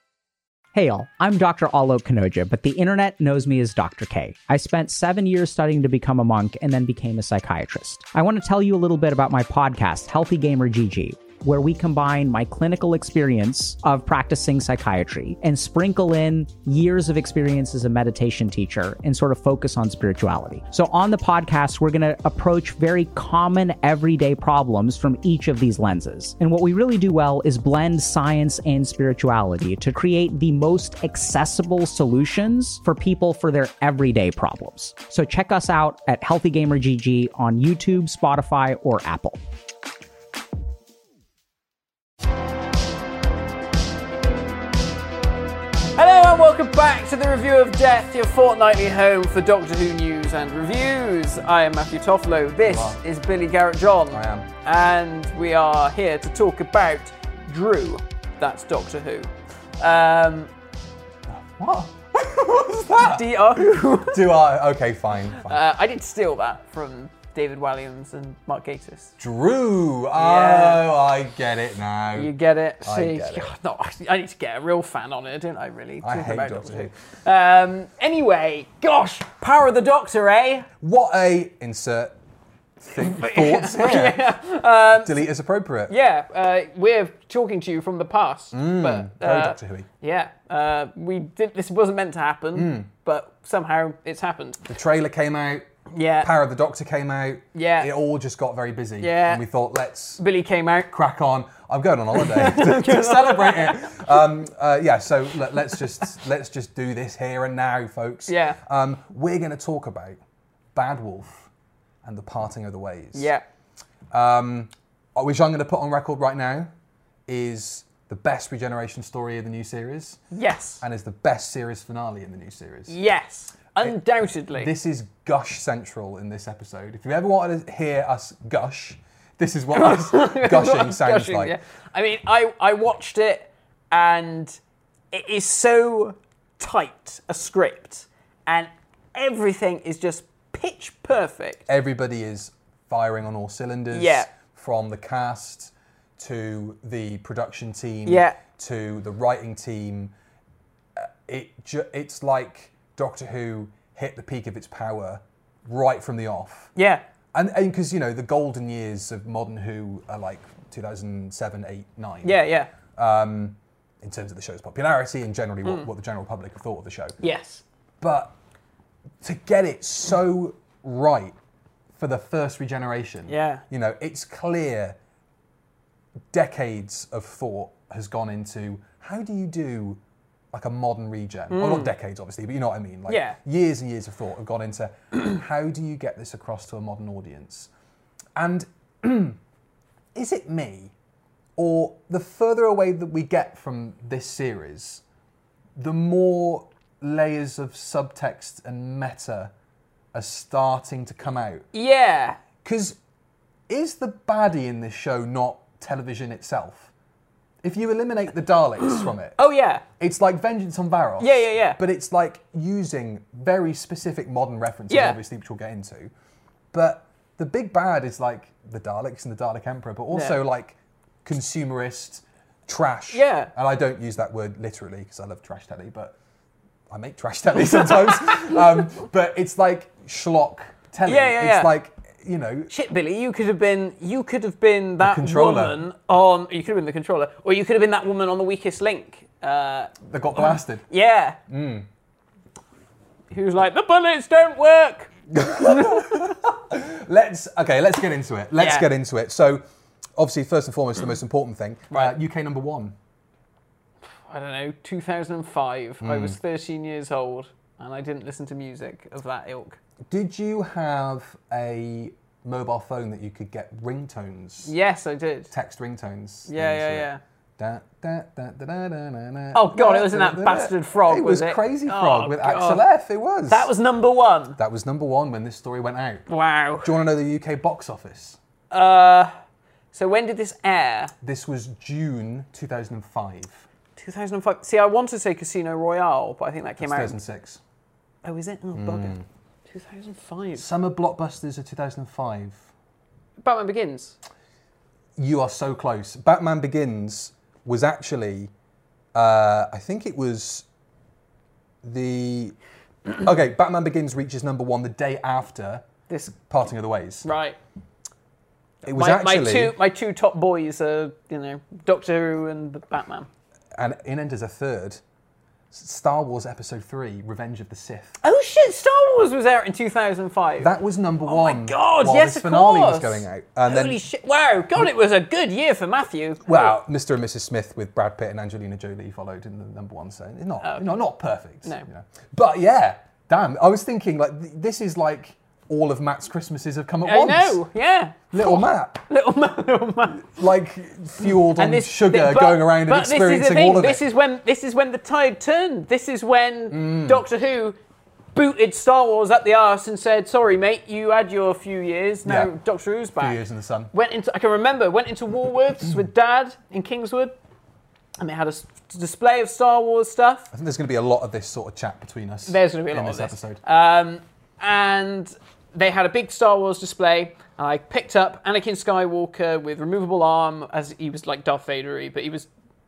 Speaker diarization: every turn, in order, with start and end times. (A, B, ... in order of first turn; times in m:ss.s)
0:00.7-0:39.4 A
0:46.0-1:00.5 B
0:52.6-0:53.0 C
0:54.1-0:54.5 C
1:01.3-1:05.6 C
1:03.0-1:04.2 B
1:05.4-1:09.2 B
1:09.2-1:13.5 C
1:10.1-1:10.8 B
1:12.1-1:20.7 B
1:16.0-1:16.9 C
1:20.8-1:22.2 C
1:22.8-1:24.2 C
1:23.0-1:25.2 B
1:25.0-1:25.9 C
1:25.9-1:34.6 B
1:28.5-1:29.9 C
1:32.5-1:32.9 C
1:34.7-1:35.7 C
1:35.9-1:36.3 B
1:36.2-1:40.2 C
1:37.6-1:37.9 B
1:39.0-1:39.4 B
1:40.2-1:40.9 B
1:40.9-1:50.2 C
1:42.2-1:44.0 B
1:48.3-1:48.6 B
1:50.8-1:51.5 C
1:52.0-1:53.3 C
1:53.1-1:53.4 B
1:54.1-1:56.7 C
1:57.3-2:00.2 C
2:00.3-2:00.8 B
2:00.8-2:03.0 C
2:02.9-2:04.7 B
2:04.5-2:11.6 C
2:09.7-2:14.6 B
2:15.1-2:21.7 B
2:21.7-2:30.1 C
2:23.9-2:24.3 B
2:28.1-2:28.4 B
2:31.0-2:36.7 C
2:36.8-2:37.0 B
2:37.3-2:42.4 C
2:42.2-2:42.7 B
2:42.9-2:47.2 C
2:47.2-2:47.6 B
2:48.0-2:48.4 C
2:49.2-2:51.4 C
2:52.0-2:55.0 C
2:53.3-2:53.6 B
2:56.3-3:00.0 C
3:00.5-3:07.7 C
3:01.5-3:01.9 B
3:03.1-3:03.4 B
3:08.4-3:09.4 C
3:10.2-3:10.9 C
3:11.6-3:15.0 C
3:15.8-3:19.5 C
3:20.1-3:21.7 C
3:21.7-3:22.4 B
3:22.6-3:23.0 C
3:23.7-3:26.9 C
3:27.6-3:29.4 C
3:29.4-3:29.8 B
3:30.0-3:36.1 C
3:31.2-3:31.8 B
3:34.9-3:35.2 B
3:36.7-3:46.2 C
3:40.1-3:40.4 B
3:43.1-3:43.5 B
3:46.9-3:52.7 C
3:47.9-3:48.5 B
3:51.0-3:51.7 B
3:52.7-4:01.4 B
3:55.0-3:55.8 C
4:00.0-4:00.9 C
4:01.5-4:01.9 C
4:03.3-4:06.3 B
4:05.3-4:09.6 C
4:08.6-4:08.9 B
4:10.2-4:13.0 C
4:14.3-4:19.8 B
4:16.0-4:16.4 C
4:20.1-4:24.7 C
4:24.6-4:25.5 B
4:25.5-4:33.7 C
4:26.5-4:27.2 B
4:29.5-4:32.8 B
4:33.5-4:34.6 B
4:34.6-4:36.3 C
4:36.3-4:37.0 B
4:36.8-4:38.4 C
4:38.7-4:39.3 B
4:39.9-4:41.1 B
4:41.2-4:43.6 C
4:44.0-4:47.2 B
4:46.8-4:47.6 C
4:48.2-4:50.7 B
4:48.7-4:49.2 C
4:50.6-4:52.7 C
4:53.4-4:54.2 B
4:55.2-4:58.5 C
4:59.2-5:00.6 C
5:01.8-5:02.6 C
5:03.1-5:07.3 C
5:06.1-5:06.3 B
5:07.2-5:07.6 B
5:08.8-5:09.8 C
5:08.9-5:13.3 B
5:13.8-5:15.0 C
5:15.7-5:18.2 C
5:18.2-5:20.7 B
5:20.6-5:24.0 C
5:21.2-5:26.8 B
5:26.4-5:37.6 C
5:30.6-5:31.0 B
5:37.0-5:40.4 B
5:38.3-5:39.0 C
5:40.2-5:44.0 C
5:41.2-5:47.8 B
5:46.7-5:47.2 C
5:48.4-5:53.4 B
5:52.2-5:52.5 C
5:53.2-5:53.9 C
5:53.9-5:57.4 B
5:58.2-6:00.5 B
6:00.5-6:03.6 C
6:02.5-6:12.5 B